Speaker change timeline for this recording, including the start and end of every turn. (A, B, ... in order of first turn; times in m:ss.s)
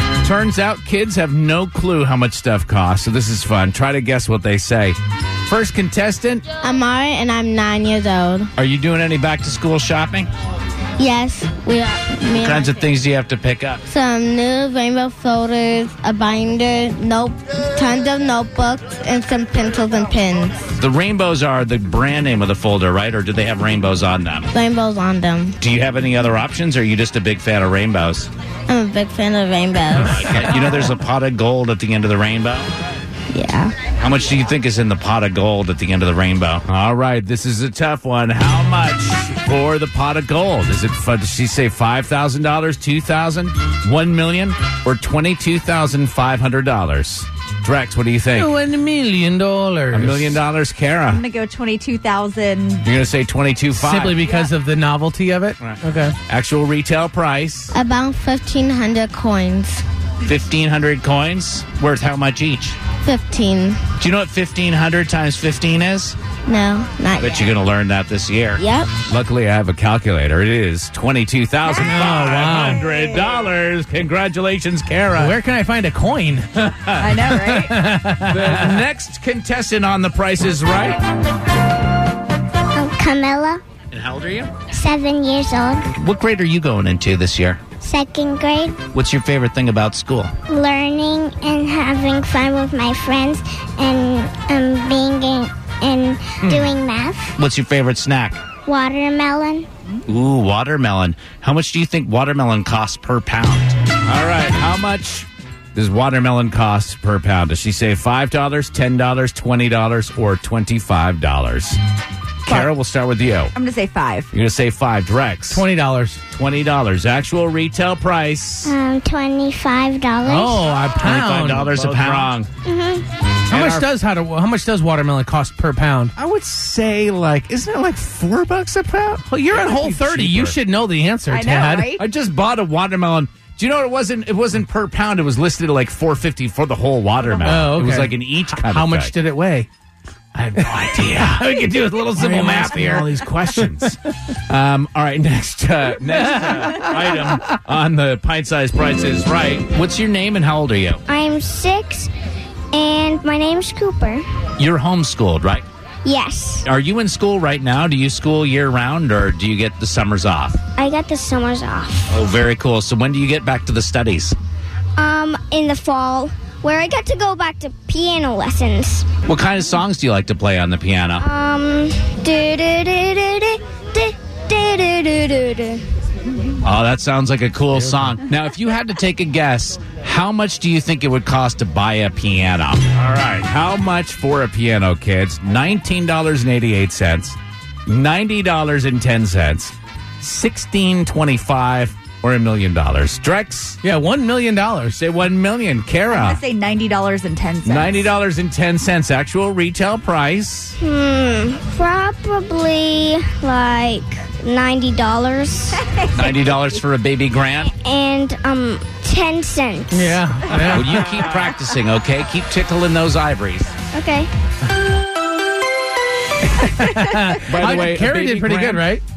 0:00.2-0:06.4 A
0:06.6-0:08.5 B
0:08.6-0:10.3 A
0:11.0-0:12.8 B
0:12.3-0:13.8 A
0:13.9-0:20.6 B
0:20.8-0:24.5 A
0:24.5-0:25.6 B
0:25.6-0:28.3 A
0:28.7-0:30.5 B
0:29.9-0:32.7 A
0:33.3-0:33.7 B
0:34.0-0:48.5 A
0:48.3-0:50.3 C
0:49.9-0:51.2 A
0:51.1-0:52.8 D
0:52.8-0:54.3 A
0:53.7-0:56.1 C
0:54.2-0:54.5 D
0:55.6-0:57.7 A
0:57.7-0:59.8 B
1:00.2-1:02.8 A
1:03.0-1:03.8 B
1:04.0-1:06.2 A
1:06.5-1:07.5 B
1:07.2-1:15.4 A
1:08.6-1:08.9 B
1:11.8-1:12.8 C
1:15.2-1:16.7 C
1:16.7-1:17.0 A
1:17.0-1:17.8 D
1:17.2-1:18.7 C
1:18.2-1:21.0 A
1:22.7-1:23.6 E
1:23.9-1:24.5 A
1:24.7-1:25.9 E
1:25.9-1:27.6 A
1:27.8-1:28.8 E
1:28.9-1:30.3 A
1:30.5-1:37.3 E
1:36.4-1:36.8 A
1:37.4-1:38.4 A
1:38.6-1:39.7 E
1:40.1-1:51.8 A
1:52.4-1:53.5 A
1:53.5-1:54.3 D
1:54.3-1:55.6 A
1:55.5-1:56.2 C
1:56.3-1:58.7 A
1:58.6-2:00.7 E
2:00.2-2:02.3 C
2:01.0-2:02.5 A
2:02.7-2:03.0 E
2:03.5-2:03.9 A
2:03.5-2:06.1 C
2:06.2-2:10.6 A
2:09.5-2:11.9 C
2:11.3-2:12.0 D
2:11.9-2:19.1 A
2:17.4-2:19.7 C
2:20.3-2:31.0 A
2:21.3-2:23.1 C
2:31.1-2:32.1 E
2:32.7-2:34.2 E
2:34.6-2:35.6 A
2:36.0-2:36.6 E
2:36.6-2:40.6 A
2:40.8-2:42.2 E
2:42.1-2:44.4 A
2:45.0-2:49.1 E
2:49.2-2:51.3 A
2:51.2-2:55.8 E
2:56.6-3:13.8 A
3:13.8-3:15.0 C
3:14.9-3:16.4 A
3:16.1-3:18.1 D
3:17.6-3:20.8 A
3:20.8-3:25.8 E
3:25.8-3:26.4 D
3:26.1-3:27.7 A
3:27.6-3:30.2 E
3:29.9-3:31.0 C
3:30.6-3:33.7 A
3:33.9-3:34.3 E
3:36.8-3:39.0 C
3:37.3-3:38.9 A